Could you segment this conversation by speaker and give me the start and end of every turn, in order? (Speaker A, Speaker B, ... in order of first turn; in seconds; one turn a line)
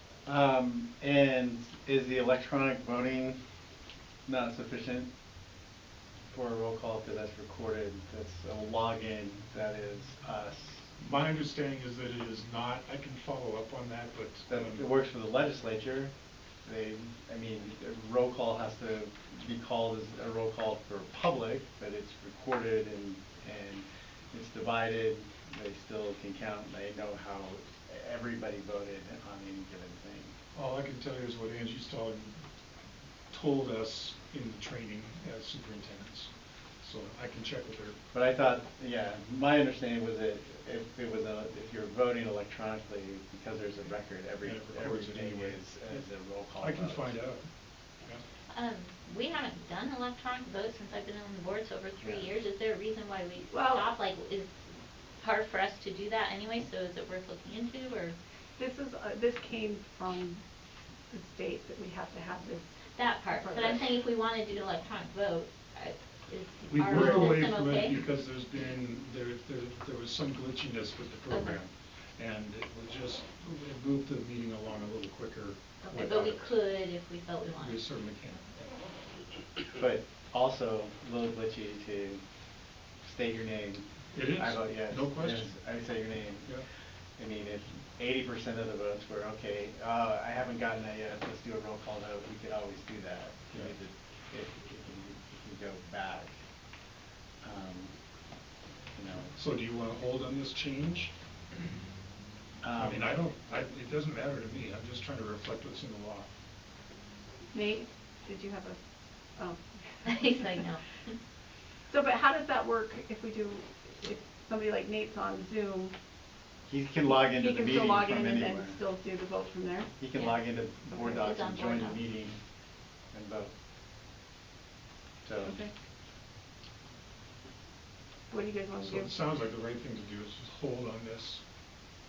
Speaker A: 0.2-3.4
Speaker A: 4.3-5.1
Speaker A: 6.3-11.0
Speaker B: 11.0-14.9
Speaker A: 14.5-16.1
Speaker A: 16.6-30.3
Speaker B: 30.6-32.3
Speaker B: 33.3-38.0
Speaker A: 38.1-47.2
Speaker B: 44.4-46.0
Speaker B: 46.6-47.5
Speaker C: 48.5-54.6
Speaker D: 53.5-53.9
Speaker C: 55.2-58.2
Speaker D: 58.6-60.4
Speaker D: 61.1-62.7
Speaker C: 63.0-68.0
Speaker D: 63.3-63.8
Speaker B: 66.7-76.5
Speaker C: 71.3-71.6
Speaker C: 75.8-77.8
Speaker B: 77.6-78.7
Speaker A: 79.7-82.2
Speaker A: 83.0-86.6
Speaker B: 84.1-85.6
Speaker A: 87.2-96.3
Speaker A: 97.4-97.9
Speaker A: 99.0-99.3
Speaker B: 99.3-101.1
Speaker A: 102.6-103.2
Speaker B: 102.8-106.3
Speaker D: 107.5-108.8
Speaker D: 109.3-110.6
Speaker C: 110.0-110.8
Speaker D: 111.9-115.9
Speaker A: 116.7-118.8
Speaker D: 117.1-119.9
Speaker A: 120.0-122.4
Speaker C: 121.0-122.0
Speaker A: 123.1-123.5
Speaker A: 125.2-125.6
Speaker D: 125.5-125.7
Speaker D: 128.3-129.2
Speaker B: 128.8-131.4